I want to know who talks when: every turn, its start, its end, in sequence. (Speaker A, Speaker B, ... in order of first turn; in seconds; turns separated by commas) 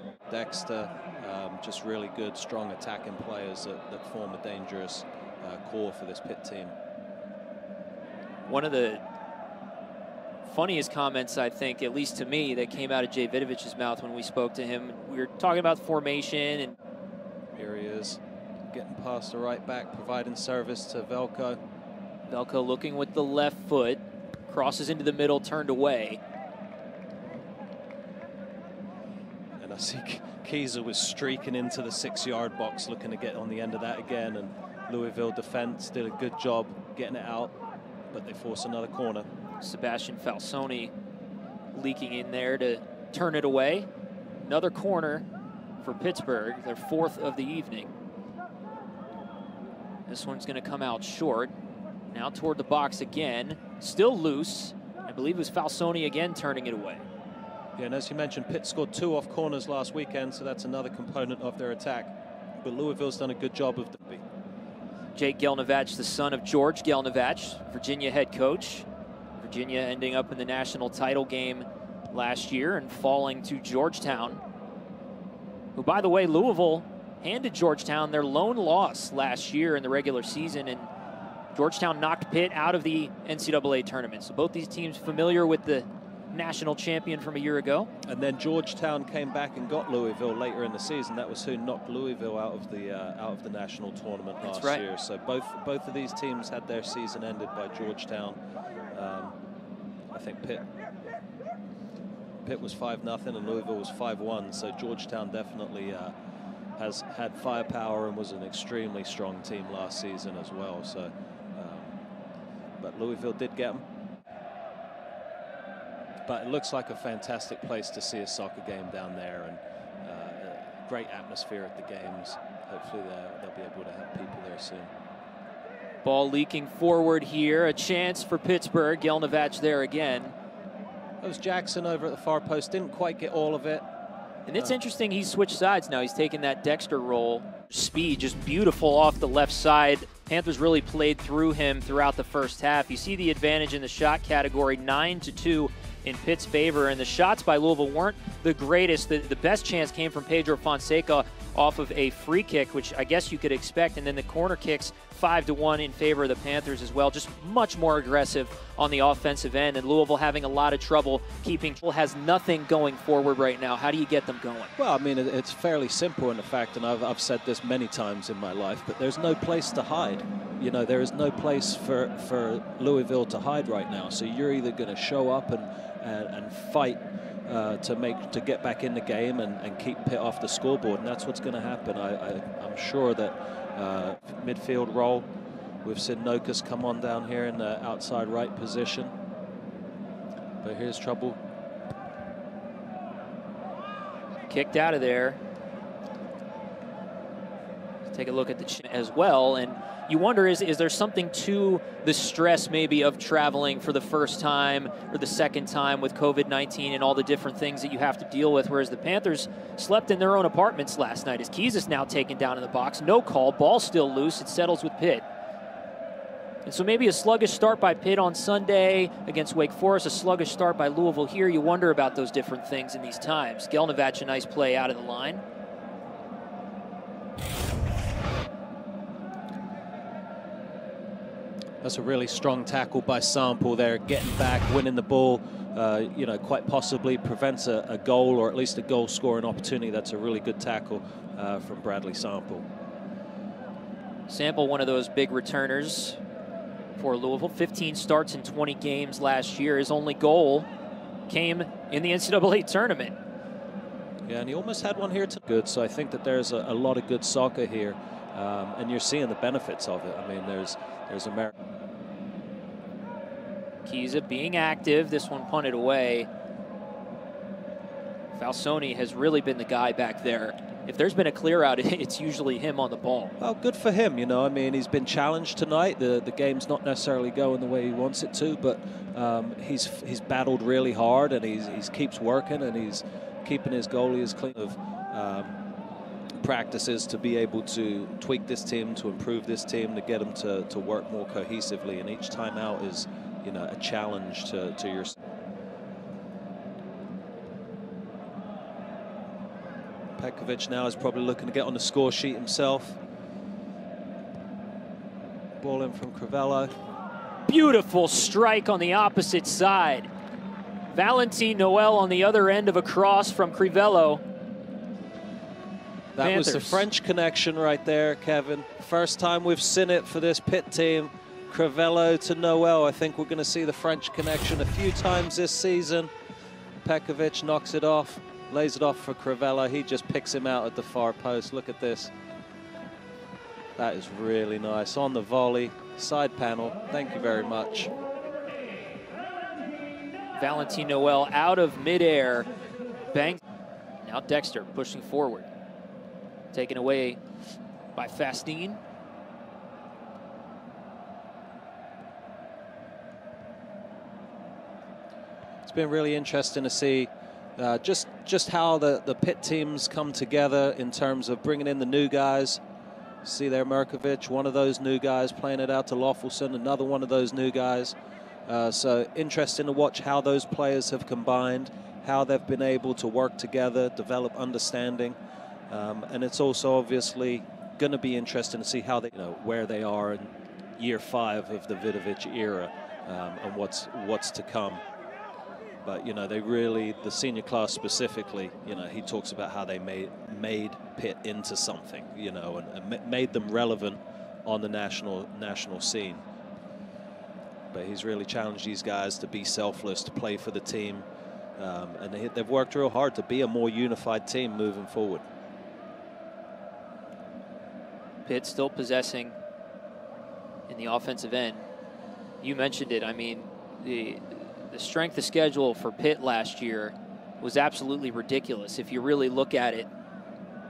Speaker A: 0.3-6.7, Speaker B: 8.5-9.0, Speaker B: 10.4-16.7, Speaker A: 17.6-18.2, Speaker A: 18.7-21.6, Speaker B: 22.3-26.2, Speaker A: 29.6-37.5, Speaker A: 38.1-39.3, Speaker B: 39.6-40.9, Speaker B: 41.7-43.9, Speaker B: 44.5-45.3, Speaker B: 45.8-47.9, Speaker B: 50.1-51.5, Speaker B: 52.1-57.0, Speaker A: 57.8-64.2, Speaker B: 65.2-74.4, Speaker B: 75.8-80.9, Speaker B: 81.5-87.9, Speaker A: 88.1-98.4, Speaker B: 94.4-94.8, Speaker A: 98.9-99.4, Speaker A: 100.1-100.7, Speaker A: 102.5-106.1, Speaker A: 106.8-112.0, Speaker A: 112.8-113.8, Speaker A: 116.3-124.9, Speaker B: 126.0-130.3, Speaker A: 131.2-133.8, Speaker B: 134.5-164.7, Speaker A: 164.8-185.3, Speaker A: 185.8-189.1, Speaker A: 190.6-191.4, Speaker B: 194.5-195.4, Speaker B: 198.1-215.3, Speaker B: 216.7-225.4, Speaker A: 231.8-242.7, Speaker B: 244.3-246.2, Speaker B: 247.0-250.7, Speaker B: 251.3-253.2, Speaker A: 254.3-261.5, Speaker B: 263.9-266.3, Speaker B: 268.3-273.4, Speaker A: 273.4-285.6, Speaker A: 286.4-295.1, Speaker A: 300.2-303.0, Speaker A: 305.6-306.7, Speaker B: 307.5-310.1, Speaker B: 310.9-314.2, Speaker A: 316.1-326.1, Speaker B: 316.2-316.9, Speaker A: 326.8-332.1, Speaker A: 333.8-337.9, Speaker B: 340.4-342.5, Speaker B: 343.1-343.4, Speaker B: 344.0-345.5, Speaker B: 346.5-347.2, Speaker B: 347.9-348.8, Speaker A: 355.7-362.6, Speaker A: 363.2-368.0, Speaker A: 368.5-375.2, Speaker A: 375.7-384.8, Speaker A: 385.9-396.2, Speaker A: 397.7-401.1, Speaker A: 401.6-405.2, Speaker B: 408.2-409.4, Speaker B: 410.7-411.6, Speaker B: 412.4-419.9